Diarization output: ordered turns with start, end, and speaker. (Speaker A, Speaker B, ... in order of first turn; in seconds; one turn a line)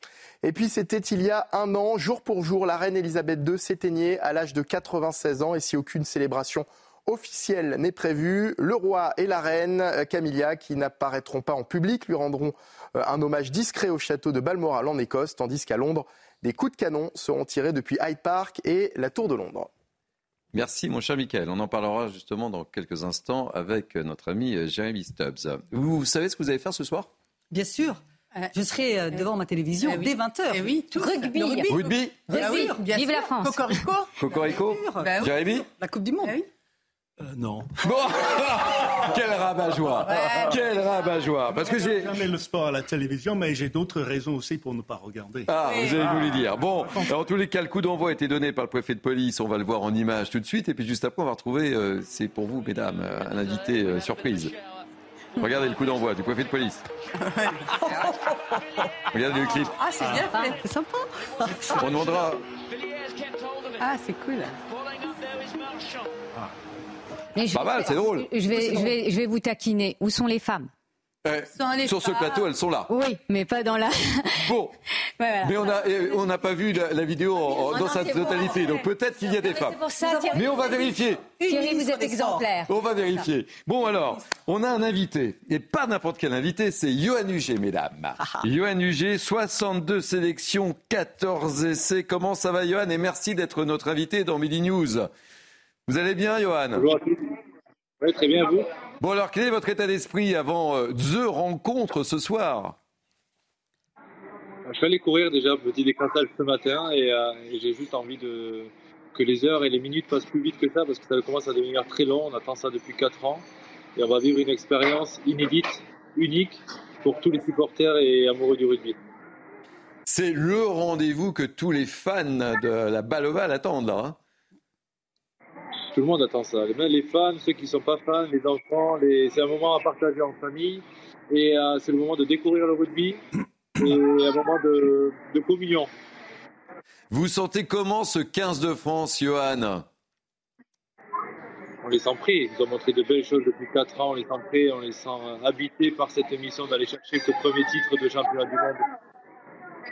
Speaker A: 0.4-19.7
Speaker B: 20.5-27.1
Speaker C: 27.5-28.0
Speaker C: 28.5-31.2
Speaker D: 29.8-34.1
Speaker E: 30.9-31.7
Speaker B: 31.7-32.3
Speaker E: 32.3-33.8
Speaker C: 32.4-32.8
Speaker B: 34.2-35.7
Speaker C: 34.3-36.4
Speaker D: 35.0-35.4
Speaker F: 37.2-37.7
Speaker B: 37.8-42.2
Speaker D: 40.0-40.6
Speaker F: 41.5-46.5
Speaker B: 45.5-54.5
Speaker D: 45.6-46.1
Speaker B: 55.4-56.8
Speaker D: 57.2-58.0
Speaker B: 59.1-59.8
Speaker D: 59.8-60.6
Speaker C: 60.5-61.8
Speaker B: 61.7-62.4
Speaker D: 63.8-64.6
Speaker E: 67.3-70.7
Speaker B: 67.5-68.3
Speaker D: 68.5-68.9
Speaker B: 71.2-72.9
Speaker D: 71.5-72.5
Speaker E: 72.9-74.4
Speaker B: 74.4-74.7
Speaker D: 75.2-75.5
Speaker B: 75.4-79.8
Speaker E: 77.4-82.7
Speaker C: 80.0-81.0
Speaker B: 80.3-81.3
Speaker C: 81.5-82.0
Speaker B: 82.7-95.1
Speaker B: 95.9-96.9
Speaker G: 96.7-97.2
Speaker G: 98.0-98.7
Speaker B: 99.0-102.8
Speaker G: 104.6-113.4
Speaker G: 114.0-119.0
Speaker B: 120.1-124.2
Speaker G: 125.9-133.2
Speaker G: 133.8-135.9
Speaker B: 137.1-139.8
Speaker G: 141.8-148.8